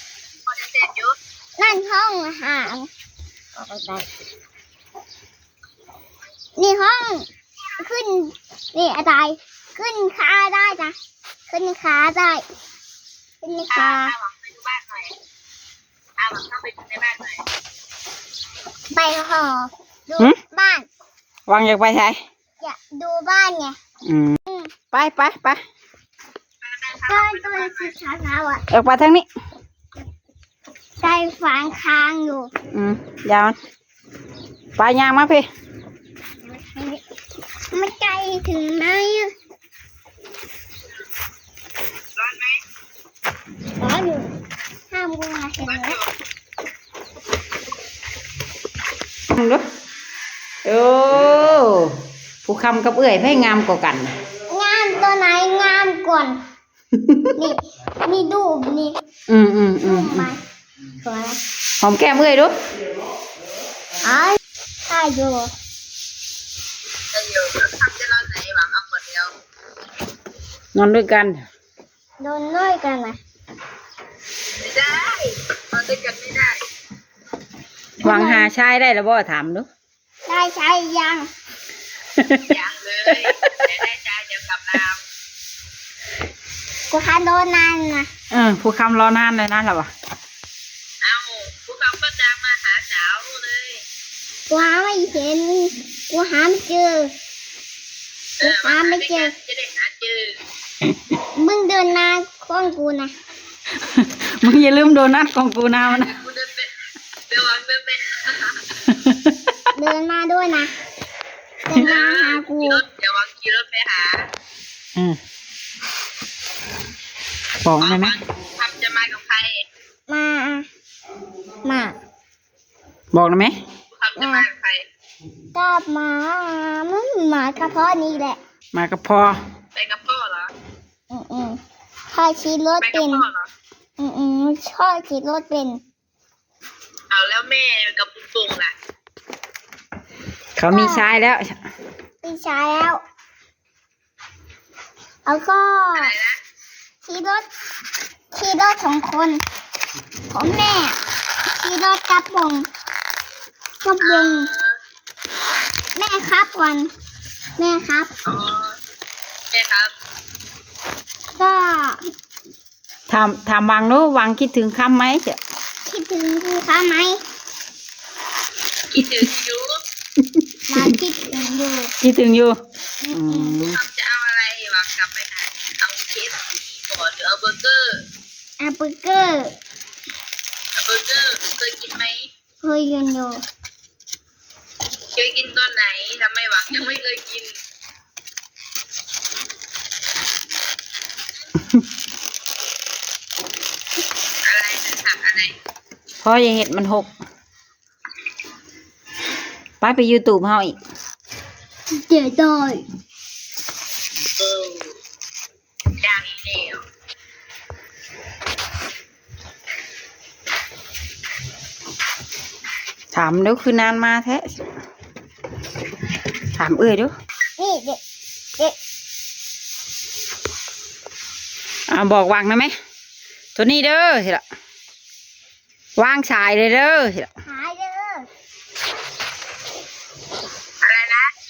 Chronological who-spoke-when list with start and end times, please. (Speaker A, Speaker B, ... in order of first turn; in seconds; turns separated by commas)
Speaker A: 0.5-1.1, Speaker B: 1.6-2.9, Speaker B: 3.6-4.0, Speaker B: 6.6-7.3, Speaker B: 7.8-10.9, Speaker B: 11.5-12.4, Speaker B: 13.4-14.1, Speaker A: 13.7-15.1, Speaker A: 16.2-17.4, Speaker B: 18.9-20.9, Speaker C: 21.5-22.2, Speaker B: 22.6-23.8, Speaker C: 24.1-24.4, Speaker B: 24.5-24.7, Speaker C: 24.9-25.6, Speaker A: 26.6-27.9, Speaker B: 27.1-28.6, Speaker C: 28.7-29.3, Speaker B: 31.0-32.5, Speaker C: 32.7-33.6, Speaker C: 34.8-35.5, Speaker B: 36.4-37.0, Speaker B: 37.7-39.3, Speaker A: 42.1-42.6, Speaker B: 43.8-44.3, Speaker B: 44.9-46.0, Speaker A: 45.6-46.1, Speaker C: 49.3-49.6, Speaker C: 50.6-54.1, Speaker B: 54.5-56.4, Speaker C: 57.0-57.3, Speaker B: 57.4-59.0, Speaker C: 59.3-60.3, Speaker B: 59.8-60.4, Speaker B: 61.0-61.4, Speaker C: 61.8-62.5, Speaker B: 64.0-65.5, Speaker A: 67.1-69.3, Speaker C: 70.7-71.4, Speaker B: 72.2-73.2, Speaker A: 74.6-76.6, Speaker B: 78.0-78.5, Speaker C: 78.0-79.7, Speaker B: 80.2-81.3, Speaker C: 82.2-82.4, Speaker A: 82.4-85.0, Speaker C: 83.2-83.7, Speaker B: 86.9-88.1, Speaker C: 88.3-89.9, Speaker A: 91.0-93.8, Speaker B: 94.5-97.1, Speaker A: 98.4-100.4, Speaker B: 98.4-99.3, Speaker B: 101.3-103.1, Speaker C: 103.8-106.1, Speaker A: 106.0-106.7, Speaker A: 107.3-108.7, Speaker C: 108.8-109.5, Speaker B: 109.7-110.7, Speaker B: 111.7-112.8, Speaker A: 111.7-114.3, Speaker C: 117.6-118.1, Speaker A: 117.8-119.6, Speaker B: 120.1-120.7, Speaker B: 121.6-122.0, Speaker C: 123.1-123.5, Speaker A: 124.0-124.8, Speaker B: 124.2-124.4, Speaker B: 125.5-128.4, Speaker C: 128.7-129.4, Speaker A: 129.7-130.5, Speaker B: 131.1-131.6, Speaker B: 132.1-133.2, Speaker A: 132.8-133.5, Speaker B: 134.0-135.8, Speaker A: 137.1-138.7, Speaker C: 140.6-141.5, Speaker B: 140.7-141.1, Speaker B: 142.2-143.0, Speaker B: 145.2-146.1, Speaker A: 145.9-146.4, Speaker B: 147.0-147.5, Speaker B: 148.3-149.4, Speaker B: 150.3-151.0, Speaker B: 151.5-152.7, Speaker B: 153.8-154.5, Speaker A: 154.0-154.7, Speaker B: 155.9-156.9, Speaker B: 157.6-158.1, Speaker A: 158.2-158.8, Speaker A: 159.5-159.9, Speaker B: 161.4-162.0, Speaker C: 163.1-165.4, Speaker B: 165.8-167.2, Speaker A: 168.9-169.8, Speaker B: 170.7-171.9, Speaker C: 172.0-172.6, Speaker B: 173.0-173.6, Speaker C: 173.1-173.8, Speaker A: 173.6-178.0, Speaker B: 178.6-179.6, Speaker A: 180.8-182.3, Speaker B: 182.6-183.4, Speaker A: 185.1-187.5, Speaker A: 194.4-195.5, Speaker C: 196.2-197.1, Speaker C: 199.8-200.8, Speaker B: 201.9-202.8, Speaker A: 204.4-204.9, Speaker A: 206.0-206.8, Speaker C: 213.1-214.7, Speaker C: 216.5-217.1, Speaker B: 217.6-218.0, Speaker C: 221.9-222.7, Speaker C: 223.5-224.4, Speaker C: 226.0-227.3, Speaker B: 227.4-228.3, Speaker A: 230.8-231.3